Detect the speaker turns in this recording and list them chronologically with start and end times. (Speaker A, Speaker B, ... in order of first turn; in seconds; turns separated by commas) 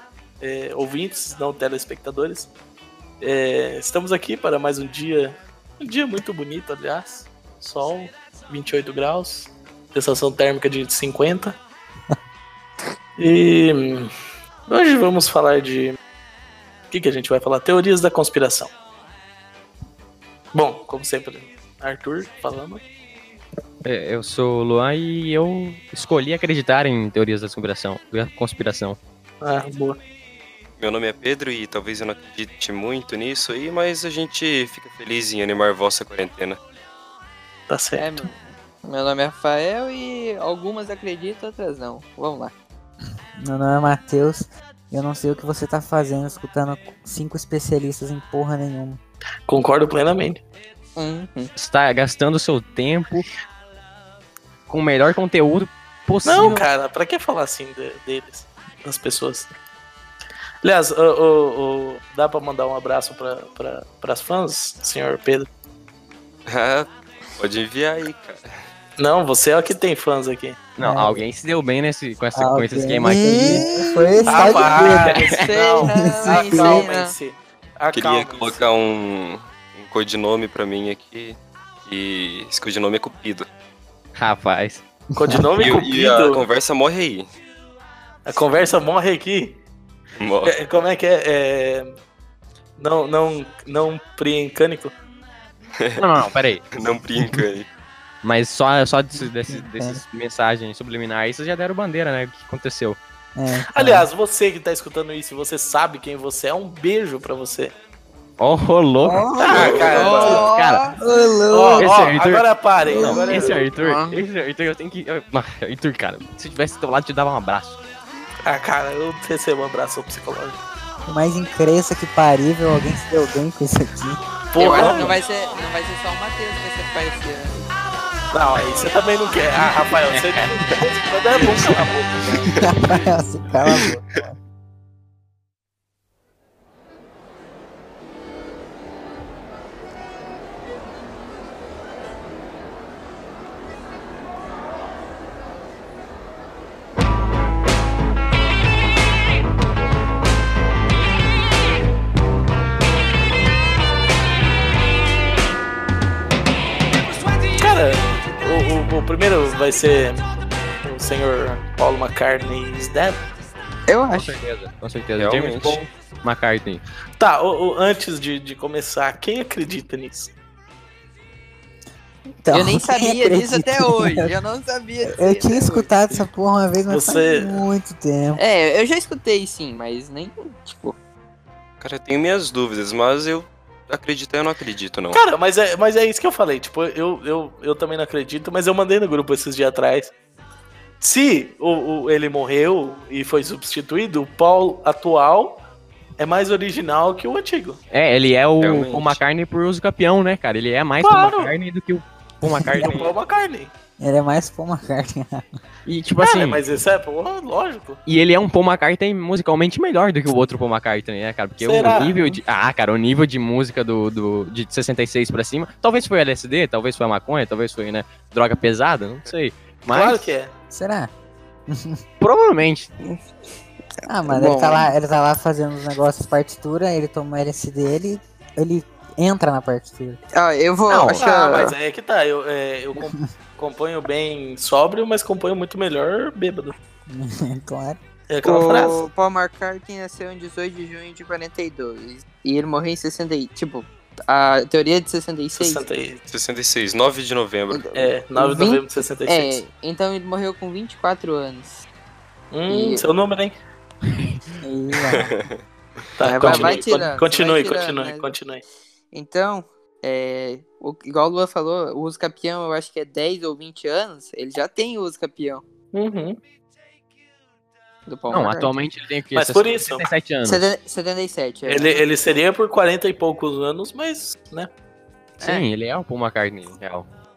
Speaker A: 0.4-2.5, Speaker A: 3.2-11.6, Speaker A: 13.2-14.1, Speaker A: 14.7-16.0, Speaker A: 16.9-18.7, Speaker A: 20.5-22.8, Speaker B: 23.8-29.0, Speaker A: 29.4-30.0, Speaker C: 30.8-36.6, Speaker A: 37.7-38.2, Speaker D: 38.0-42.5, Speaker E: 43.4-49.0, Speaker A: 49.5-50.4, Speaker D: 51.0-51.5, Speaker B: 51.5-53.3, Speaker B: 54.7-56.6, Speaker A: 56.2-59.5, Speaker A: 60.6-65.5, Speaker C: 66.5-68.5, Speaker A: 69.0-70.6, Speaker B: 70.8-73.7, Speaker E: 70.8-71.2, Speaker E: 72.3-75.2, Speaker D: 73.0-77.2, Speaker A: 74.3-78.7, Speaker E: 76.2-76.9, Speaker C: 77.9-83.5, Speaker B: 84.2-84.8, Speaker A: 85.2-86.4, Speaker E: 85.2-85.7, Speaker C: 85.6-87.3, Speaker A: 88.2-89.6, Speaker C: 90.2-90.5, Speaker A: 90.4-91.9, Speaker A: 92.8-94.9, Speaker B: 96.0-96.7, Speaker C: 96.7-97.7, Speaker B: 98.2-103.0, Speaker E: 99.2-100.0, Speaker E: 103.3-104.1, Speaker A: 103.8-107.7, Speaker B: 108.4-110.9, Speaker D: 109.1-111.9, Speaker A: 109.4-110.5, Speaker C: 109.5-109.9, Speaker A: 111.5-113.6, Speaker B: 111.8-117.8, Speaker D: 112.9-114.2, Speaker E: 112.9-113.4, Speaker A: 118.5-120.6, Speaker E: 121.1-124.2, Speaker A: 124.5-125.2, Speaker D: 124.6-127.7, Speaker E: 124.8-125.1, Speaker A: 128.3-132.4, Speaker C: 132.4-132.8, Speaker E: 132.6-134.3, Speaker A: 157.6-160.3, Speaker A: 160.8-163.2, Speaker D: 163.9-164.4, Speaker B: 164.1-166.8, Speaker C: 165.2-165.8, Speaker A: 167.2-170.3, Speaker E: 172.4-174.3, Speaker D: 172.5-175.9, Speaker E: 175.0-178.4, Speaker A: 176.9-177.6, Speaker D: 178.3-180.9, Speaker C: 181.8-185.2, Speaker A: 185.1-190.1, Speaker A: 191.0-195.6, Speaker A: 196.2-197.8, Speaker B: 197.9-203.1, Speaker C: 198.6-199.2, Speaker A: 201.0-201.5, Speaker E: 202.5-202.9, Speaker A: 202.8-203.7, Speaker E: 204.0-205.5, Speaker B: 205.8-206.6, Speaker A: 206.2-208.0, Speaker B: 208.1-220.3, Speaker A: 211.6-212.1, Speaker D: 211.9-212.3, Speaker A: 219.9-220.5, Speaker E: 220.7-221.1, Speaker E: 221.7-222.0, Speaker B: 222.2-222.9, Speaker E: 224.1-230.2, Speaker D: 224.2-224.9, Speaker D: 230.3-231.8, Speaker B: 230.9-231.2, Speaker A: 231.2-236.7, Speaker E: 233.0-233.2, Speaker E: 237.1-238.0, Speaker A: 238.3-239.1, Speaker D: 238.4-245.8, Speaker A: 245.6-246.2, Speaker C: 246.3-247.9, Speaker D: 247.7-251.9, Speaker A: 247.9-249.6, Speaker A: 252.5-253.6, Speaker D: 252.7-253.1, Speaker B: 254.1-254.4, Speaker E: 254.6-255.3, Speaker C: 255.0-255.6, Speaker C: 256.2-256.8, Speaker A: 256.2-258.6, Speaker D: 256.2-258.3, Speaker D: 259.1-265.6, Speaker A: 265.9-266.4, Speaker D: 268.1-268.7, Speaker B: 268.3-270.6, Speaker A: 269.3-270.1, Speaker D: 270.4-272.0, Speaker A: 271.7-274.7, Speaker B: 275.4-277.1